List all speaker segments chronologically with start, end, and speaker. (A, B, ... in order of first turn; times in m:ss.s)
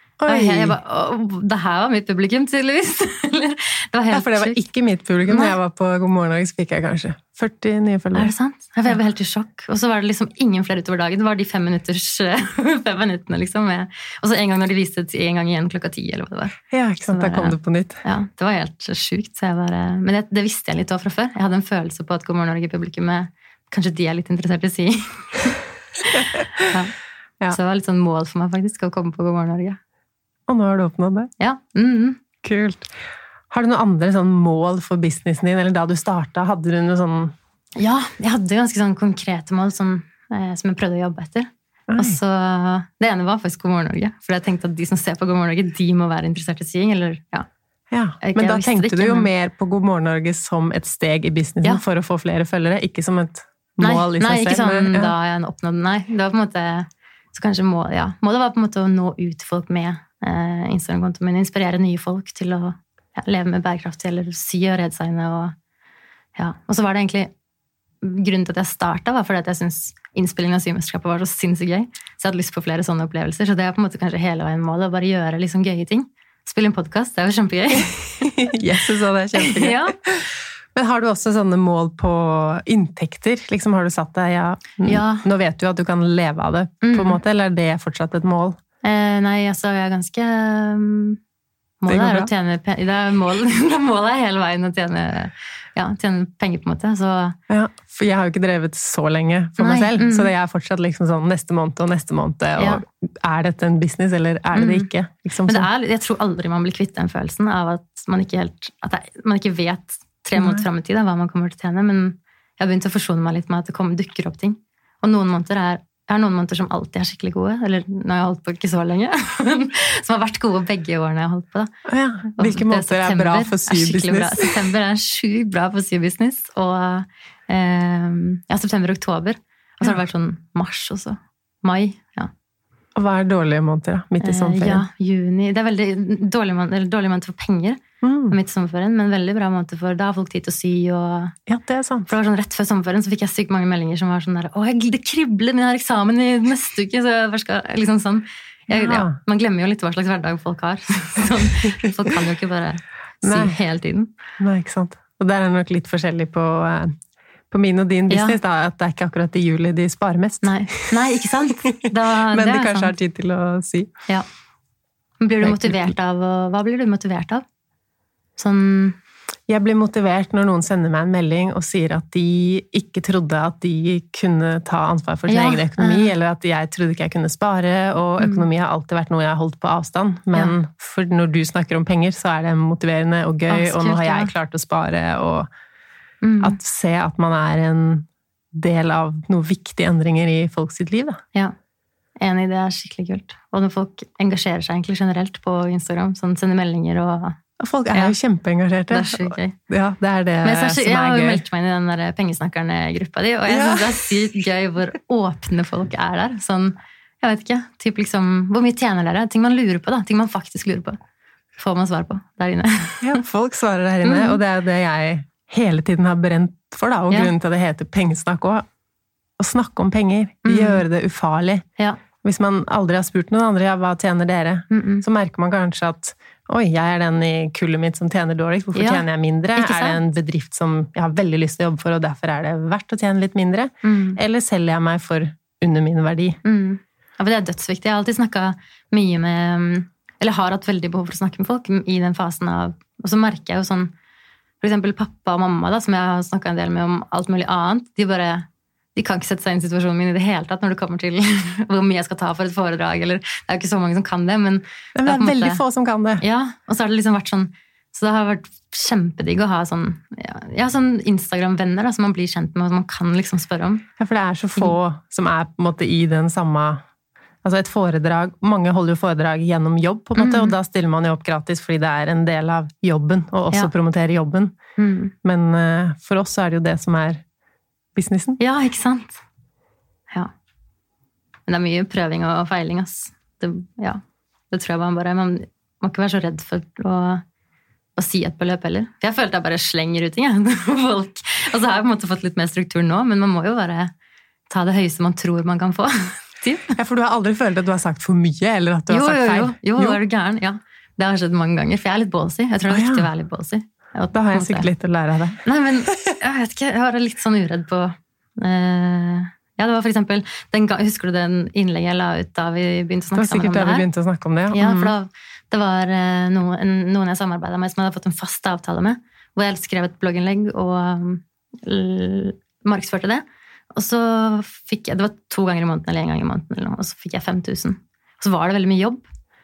0:00.2-0:00.8 A
0:00.3-0:04.6 B
0:04.1-0:08.3 A
0:05.3-0:05.6 B
0:08.1-0:25.6 B
0:16.7-0:18.0 A
0:26.3-0:26.6 A
0:26.6-0:26.9 B
0:27.5-0:29.8 B
0:30.5-0:31.3 A
0:31.4-0:32.2 B
0:32.4-0:32.9 A
0:33.5-0:37.4 A
0:37.8-0:47.5 B
0:41.9-0:42.2 A
0:47.9-0:55.1 A
0:48.2-0:49.3 B
0:53.8-1:05.6 B
1:06.4-1:07.3 B
1:08.0-1:18.4 B
1:18.2-1:28.6 A
1:19.4-1:19.9 B
1:24.8-1:25.3 B
1:26.8-1:27.2 B
1:28.8-1:31.2 B
1:31.8-1:37.4 B
1:31.9-1:32.3 A
1:37.5-1:45.7 A
1:39.6-1:40.3 B
1:44.5-1:44.9 B
1:45.5-2:01.7 B
1:50.4-1:50.6 A
2:01.9-2:04.6 A
2:02.3-2:12.3 B
2:12.9-2:14.9 A
2:14.2-2:21.4 B
2:18.0-2:18.4 A
2:21.5-2:22.1 A
2:22.1-2:34.1 B
2:28.7-2:29.2 A
2:33.2-2:33.6 A
2:34.4-2:37.0 A
2:37.5-2:41.5 A
2:38.1-2:38.4 B
2:40.4-2:42.9 B
2:42.3-2:43.9 A
2:45.2-2:47.4 B
2:45.4-2:45.9 A
2:48.4-2:49.0 B
2:49.5-3:05.5 A
2:55.3-2:56.1 B
2:58.2-2:58.5 B
3:03.5-3:04.3 B
3:06.2-3:06.6 B
3:06.4-3:11.2 A
3:12.2-3:17.4 B
3:17.6-3:21.4 A
3:17.9-3:18.1 B
3:18.9-3:19.6 B
3:20.4-3:31.0 B
3:23.5-3:24.0 A
3:31.6-3:33.2 B
3:33.0-3:38.6 A
3:34.0-3:34.4 B
3:39.4-3:41.6 A
3:40.4-3:40.8 B
3:42.2-3:56.4 A
3:44.7-3:45.0 B
3:48.8-3:49.0 B
3:49.6-3:50.0 B
3:53.8-3:54.2 B
3:56.4-4:03.9 B
4:04.6-4:15.6 B
4:14.9-4:16.2 A
4:16.2-4:23.8 B
4:24.0-4:26.8 A
4:27.4-4:34.6 A
4:30.2-4:30.6 B
4:34.8-4:35.1 B
4:35.2-4:37.2 A
4:37.9-4:38.4 A
4:38.4-4:39.2 B
4:41.5-4:47.2 B
4:48.0-4:53.9 B
4:54.5-4:56.8 B
4:56.8-5:00.0 A
4:58.9-5:04.7 B
5:02.7-5:03.1 A
5:04.1-5:06.1 A
5:05.4-5:13.9 B
5:13.2-5:14.9 A
5:14.5-5:29.0 B